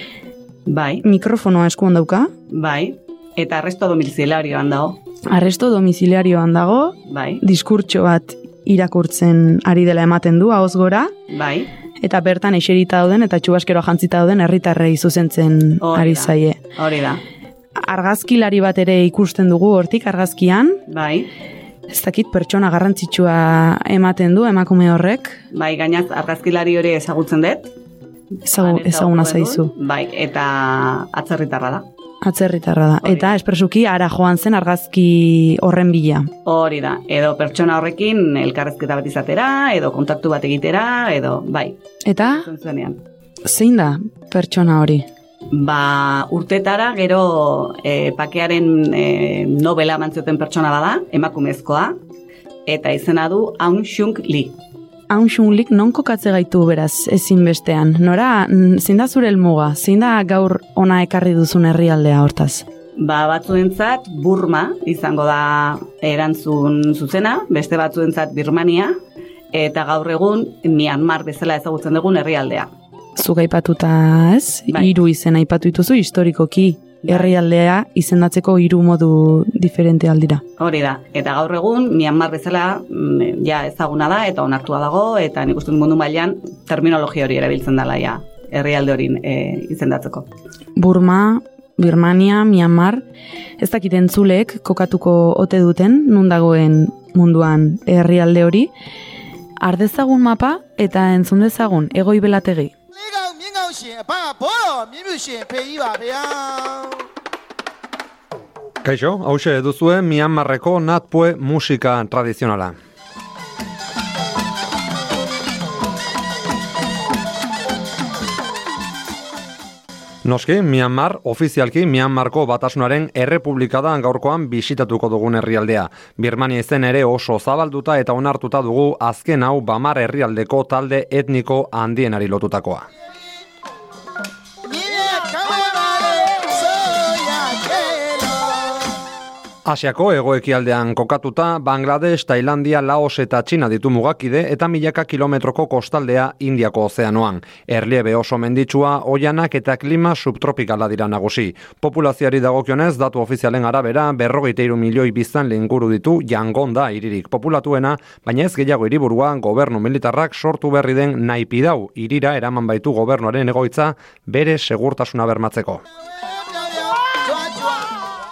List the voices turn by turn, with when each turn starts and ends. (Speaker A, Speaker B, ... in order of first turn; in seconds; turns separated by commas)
Speaker A: 0.7-1.0, Speaker B: 1.0-2.3, Speaker A: 2.5-5.0, Speaker B: 5.3-11.1, Speaker A: 7.1-7.4, Speaker A: 11.3-11.7, Speaker B: 12.0-16.6, Speaker A: 15.8-17.2, Speaker B: 17.8-20.8, Speaker A: 20.9-21.3, Speaker B: 21.9-25.4, Speaker A: 25.5-27.7, Speaker B: 28.4-29.7, Speaker A: 28.6-31.9, Speaker B: 32.2-36.3, Speaker A: 33.0-33.3, Speaker A: 36.4-41.8, Speaker B: 42.0-42.4, Speaker A: 42.4-43.0, Speaker B: 43.4-45.0, Speaker A: 45.5-51.9, Speaker A: 52.6-54.6, Speaker B: 55.1-62.6, Speaker A: 63.0-69.0, Speaker A: 69.5-72.7, Speaker B: 73.2-80.4, Speaker A: 77.0-77.3, Speaker A: 80.6-90.3, Speaker B: 90.8-93.0, Speaker B: 93.6-98.7, Speaker B: 99.6-102.7, Speaker C: 102.9-107.0, Speaker D: 108.8-112.7, Speaker D: 120.2-132.9, Speaker C: 134.6-138.8, Speaker D: 139.7-165.8, Speaker C: 166.3-167.9